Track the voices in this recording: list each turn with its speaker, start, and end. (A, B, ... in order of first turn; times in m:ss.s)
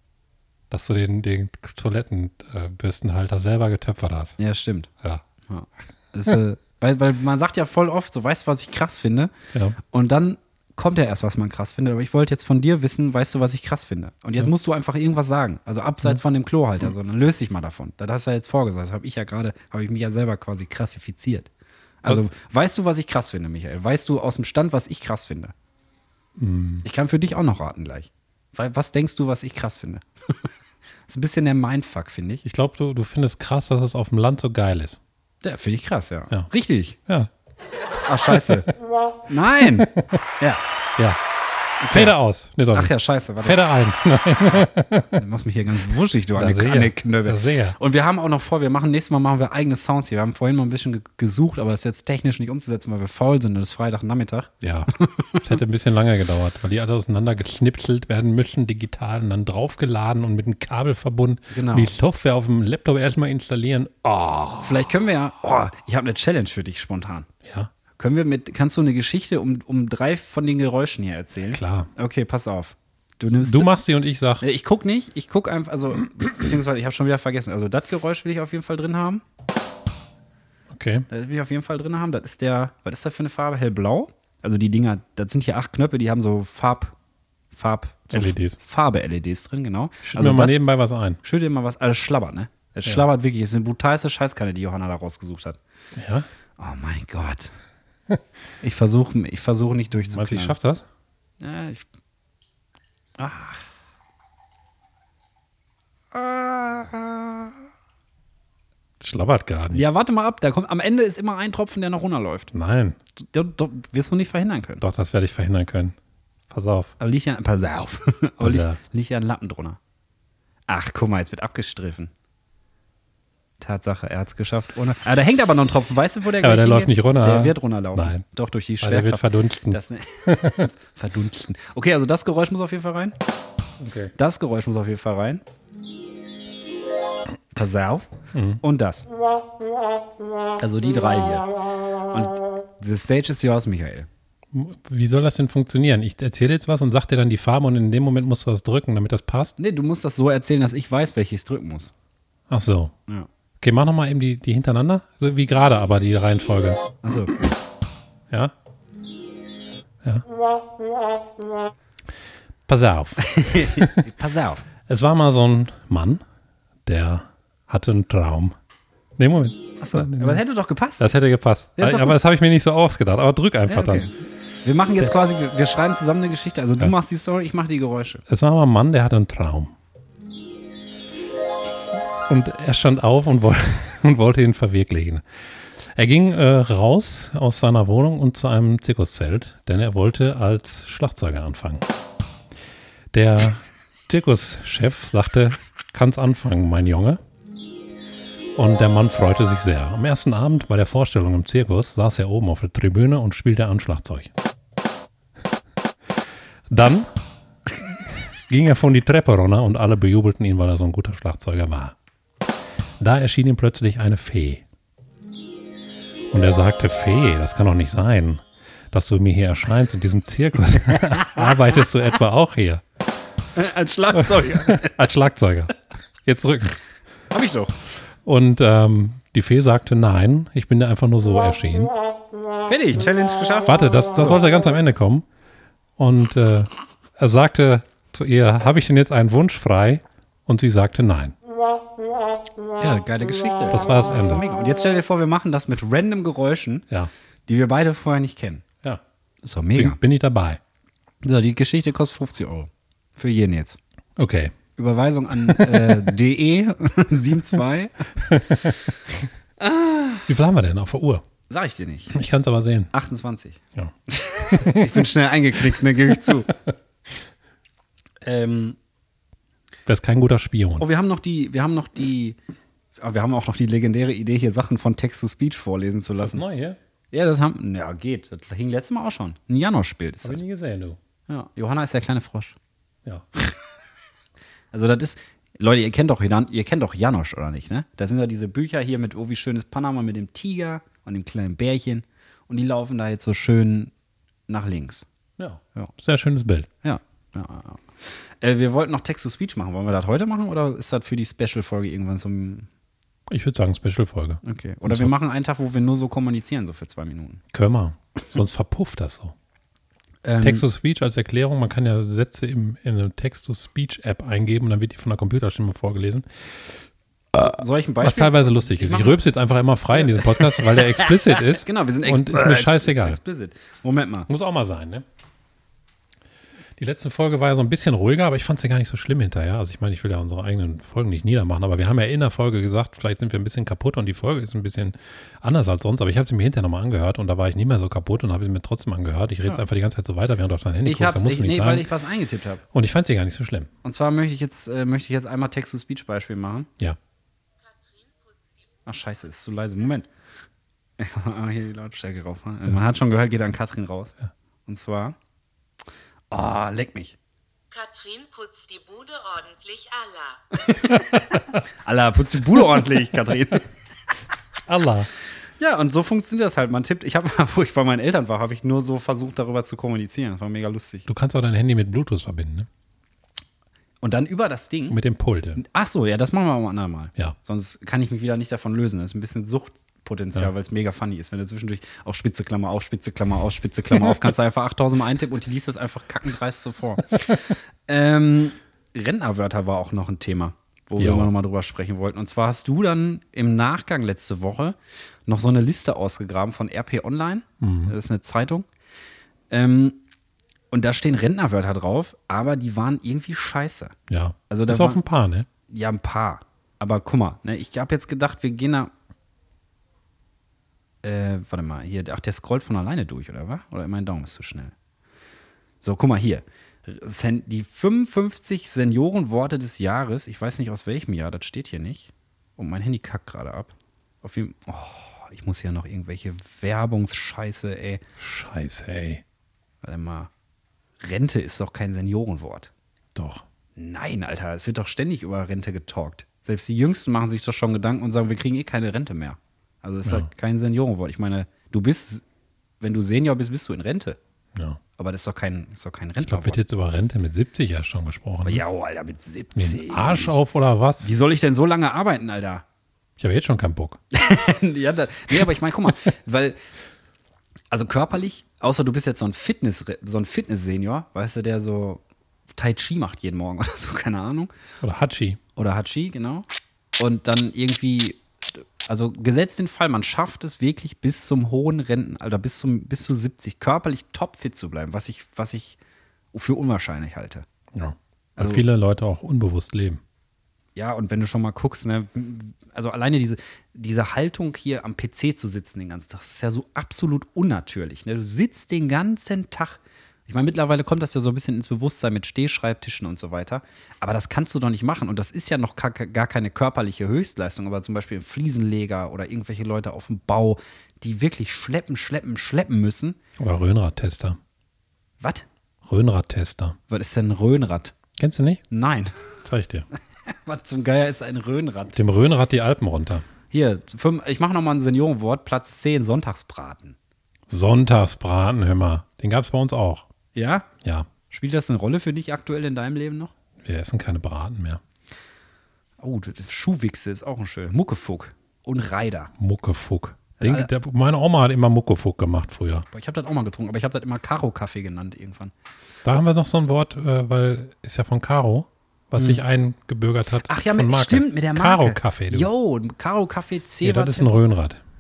0:00.7-0:04.4 A
0:04.4-0:04.9 B
0:05.4-0:21.5 B
0:22.0-0:25.5 B
0:26.4-0:26.8 A
0:26.8-0:30.4 B
0:31.1-0:32.4 B
0:32.4-0:35.0 A
0:35.4-0:37.0 B
0:38.0-0:38.7 B
0:39.3-0:40.6 B
0:39.8-0:40.2 A
0:41.8-0:42.2 B
0:41.9-0:45.2 A
0:42.7-0:43.6 B
0:45.1-0:55.5 B
0:46.3-0:47.8 A
0:54.6-1:04.9 A
1:01.5-1:01.9 B
1:04.6-1:07.3 B
1:07.4-1:07.7 A
1:08.0-1:13.7 B
1:11.5-1:11.9 A
1:13.3-1:14.4 A
1:14.4-1:19.2 B
1:20.7-1:21.1 A
1:21.1-1:26.9 B
1:27.5-1:30.6 B
1:28.1-1:28.6 A
1:30.0-1:31.2 A
1:31.2-1:35.6 B
1:35.9-1:36.3 A
1:36.6-1:37.5 B
1:38.6-1:40.6 B
1:40.1-1:40.8 A
1:41.4-1:41.8 B
1:43.2-1:43.6 B
1:46.1-1:47.6 B
1:49.0-1:49.8 A
1:49.7-1:52.5 B
1:52.5-1:53.0 A
1:53.2-1:54.8 B
1:54.8-1:55.9 A
1:56.5-1:56.9 A
1:57.0-1:59.8 B
1:58.4-1:58.8 A
2:00.7-2:02.1 B
2:03.6-2:13.2 B
2:06.4-2:08.2 A
2:08.8-2:10.7 A
2:13.8-2:14.1 A
2:14.2-2:15.4 B
2:17.5-2:18.1 B
2:18.3-2:18.6 A
2:18.6-2:19.0 B
2:20.6-2:21.5 B
2:22.1-2:24.1 B
2:24.5-2:29.5 A
2:29.6-2:31.9 B
2:32.5-2:32.9 A
2:33.6-2:36.8 A
2:37.0-2:37.4 B
2:42.7-2:44.1 A
2:43.2-2:44.6 B
2:44.9-2:46.2 A
2:46.8-2:48.5 A
2:49.2-2:50.4 A
2:49.8-2:51.1 B
2:51.0-2:54.1 A
2:51.8-2:52.2 B
2:53.7-2:54.1 B
2:54.6-2:58.2 B
2:58.3-2:59.7 A
3:02.3-3:05.2 A
3:05.8-3:11.8 A
3:13.1-3:17.2 A
3:18.6-3:24.3 A
3:26.7-3:27.1 A
3:27.7-3:31.9 A
3:33.0-3:34.6 A
3:36.3-3:42.8 A
3:43.5-3:45.0 B
3:44.1-3:45.7 A
3:46.2-3:46.8 A
3:47.3-3:47.8 B
3:48.2-3:51.9 A
3:52.6-3:54.4 B
3:53.6-3:55.2 A
3:56.0-4:01.3 A
4:02.8-4:06.9 B
4:03.7-4:04.4 A
4:07.5-4:08.6 B
4:09.4-4:10.0 B
4:09.7-4:10.6 A
4:11.2-4:13.8 B
4:14.2-4:14.6 A
4:14.8-4:18.1 B
4:15.4-4:16.1 A
4:18.2-4:19.1 A
4:19.6-4:20.2 B
4:20.2-4:21.2 A
4:21.5-4:22.1 B
4:22.1-4:22.9 A
4:22.9-4:26.5 B
4:23.8-4:25.1 A
4:28.2-4:28.8 B
4:29.8-4:30.9 A
4:30.8-4:32.4 B
4:33.0-4:36.4 B
4:36.2-4:36.8 A
4:37.1-4:40.4 B
4:40.2-4:41.0 A
4:41.3-4:42.6 B
4:44.7-4:53.9 B
4:54.5-4:55.1 B
4:55.4-4:56.7 A
4:56.8-5:02.7 B
5:03.3-5:05.1 A
5:04.4-5:07.4 B
5:07.5-5:09.3 A
5:10.2-5:10.6 B
5:10.4-5:16.2 A
5:17.4-5:19.2 B
5:18.0-5:23.2 A
5:20.0-5:24.3 B
5:24.3-5:25.0 A
5:26.8-5:41.9 A
5:40.8-5:42.6 B
5:42.7-5:43.7 A
5:43.8-5:46.7 B
5:47.6-5:48.8 C
5:48.8-5:50.1 B
5:51.0-5:55.2 B
5:56.3-5:57.2 B
5:57.7-6:00.6 C
6:00.6-6:03.7 B
6:01.1-6:01.6 A
6:04.7-6:05.1 A
6:05.6-6:11.1 B
6:11.1-6:12.7 A
6:14.0-6:15.0 B
6:14.9-6:15.6 A
6:15.6-6:34.8 B
6:31.0-6:31.3 A
6:35.3-6:38.6 B
6:37.6-6:37.9 A
6:39.5-6:40.0 B
6:40.7-6:43.9 B
6:44.1-6:45.5 A
6:44.5-6:45.0 B
6:45.7-6:48.9 B
6:51.0-6:54.7 B
6:55.8-7:08.0 B
7:08.2-7:09.2 A
7:09.8-7:10.3 B
7:11.0-7:12.7 B
7:13.1-7:13.4 A
7:13.8-7:22.2 B
7:22.8-7:24.2 B
7:24.5-7:24.8 A
7:25.0-7:26.6 B
7:26.2-7:28.6 A
7:28.4-7:30.4 B
7:29.6-7:31.1 A
7:31.0-7:32.6 B
7:33.2-7:34.0 A
7:34.1-7:36.6 B
7:37.7-7:42.0 B
7:42.6-7:44.5 B
7:44.8-7:45.4 A
7:45.6-7:46.4 B
7:47.0-7:55.8 B
7:56.3-7:57.4 B
7:57.7-8:00.0 A
7:58.4-7:58.6 B
8:00.8-8:23.2 B
8:23.4-8:24.4 A
8:25.2-8:25.4 B
8:25.8-8:26.8 A
8:26.9-8:27.9 B
8:28.2-8:28.6 A
8:28.7-8:29.3 B
8:29.4-8:29.9 A
8:30.3-8:32.0 B
8:31.9-8:33.2 A
8:33.5-8:37.0 B
8:37.5-8:40.1 A
8:40.3-8:40.7 B
8:40.8-8:41.1 A
8:41.3-8:43.3 B
8:43.6-8:44.8 A
8:46.0-8:49.3 B
8:49.4-8:52.9 A
8:50.4-8:50.7 B
8:52.9-8:55.5 B
8:56.0-9:02.5 A
9:00.4-9:04.3 B
9:03.8-9:04.8 A